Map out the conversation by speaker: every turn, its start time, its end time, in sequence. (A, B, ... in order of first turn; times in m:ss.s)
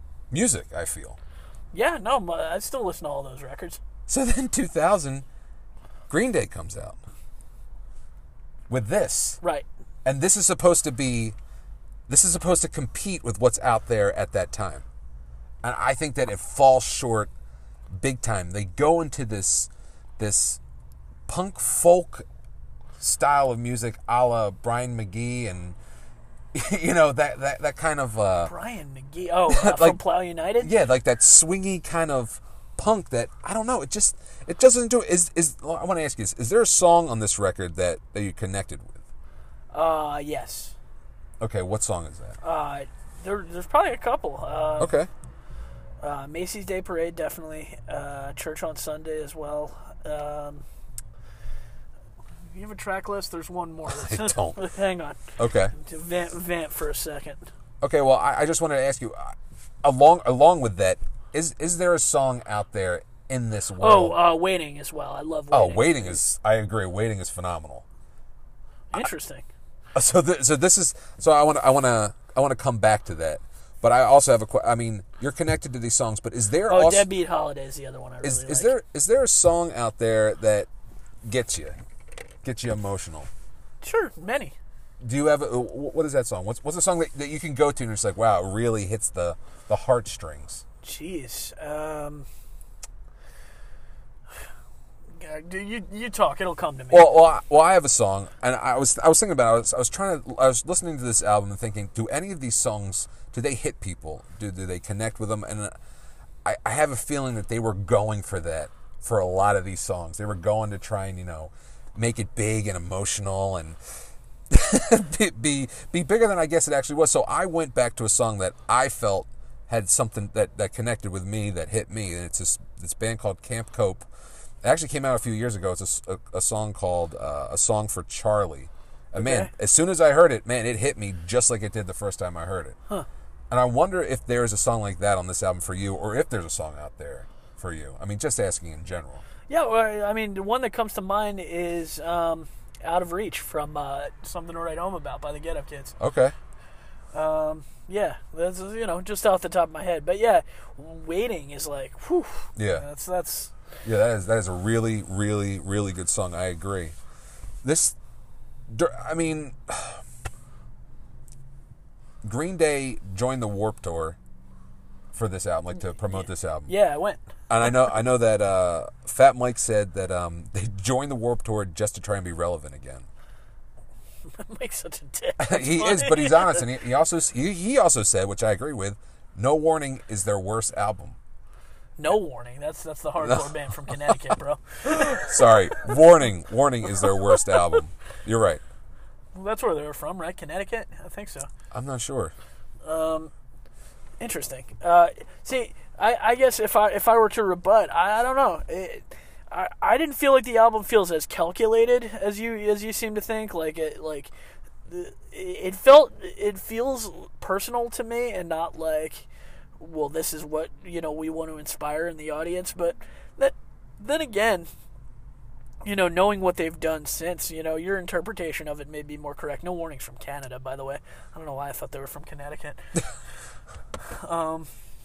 0:00.3-0:01.2 A
0:01.7-0:03.8 B
0:04.1-0:05.2 A
0:06.1-0:07.0 A
0:08.7-0:09.4 A
0:10.0-0:11.4 A
0:12.1-0:14.8 A
0:15.6-0:17.3 A
0:17.9-0:20.6 A
0:21.3-0:22.2 A
0:23.0-0:25.8 A
0:26.5-0:28.5 A
0:28.4-0:30.7 B
0:29.5-0:30.0 A
0:30.6-0:39.0 A
0:39.7-0:40.7 B
0:41.4-0:42.4 A
0:42.4-0:44.9 B
0:44.8-0:45.1 A
0:46.0-0:50.6 B
0:52.5-0:55.2 B
0:53.9-0:54.6 A
0:55.4-0:55.7 A
0:55.7-0:57.5 B
0:57.8-1:04.2 A
1:03.8-1:06.2 B
1:05.5-1:07.8 A
1:08.9-1:09.4 B
1:09.9-1:17.1 A
1:16.7-1:18.7 B
1:18.2-1:20.7 A
1:21.2-1:21.8 A
1:22.4-1:23.3 A
1:23.8-1:24.5 B
1:25.0-1:30.6 A
1:30.8-1:32.2 B
1:35.2-1:37.2 B
1:36.9-1:45.7 A
1:46.4-1:53.8 A
1:54.5-2:04.1 A
2:04.6-2:12.8 A
2:09.2-2:09.5 B
2:13.5-2:19.2 A
2:19.5-2:26.0 B
2:26.0-2:26.3 A
2:27.1-2:33.5 B
2:32.6-2:32.8 A
2:33.8-2:36.9 A
2:37.6-2:38.0 A
2:38.7-2:40.0 A
2:42.2-2:44.2 A
2:45.1-2:46.7 A
2:46.1-2:47.2 B
2:47.5-2:53.1 A
2:54.4-2:56.6 B
2:55.4-3:01.2 A
3:02.0-3:06.0 B
3:03.2-3:03.5 A
3:04.8-3:08.6 A
3:09.3-3:11.5 B
3:11.7-3:12.3 A
3:12.8-3:13.3 B
3:14.2-3:24.3 B
3:24.9-3:29.3 B
3:29.8-3:34.7 B
3:35.8-3:42.8 B
3:44.1-3:44.7 B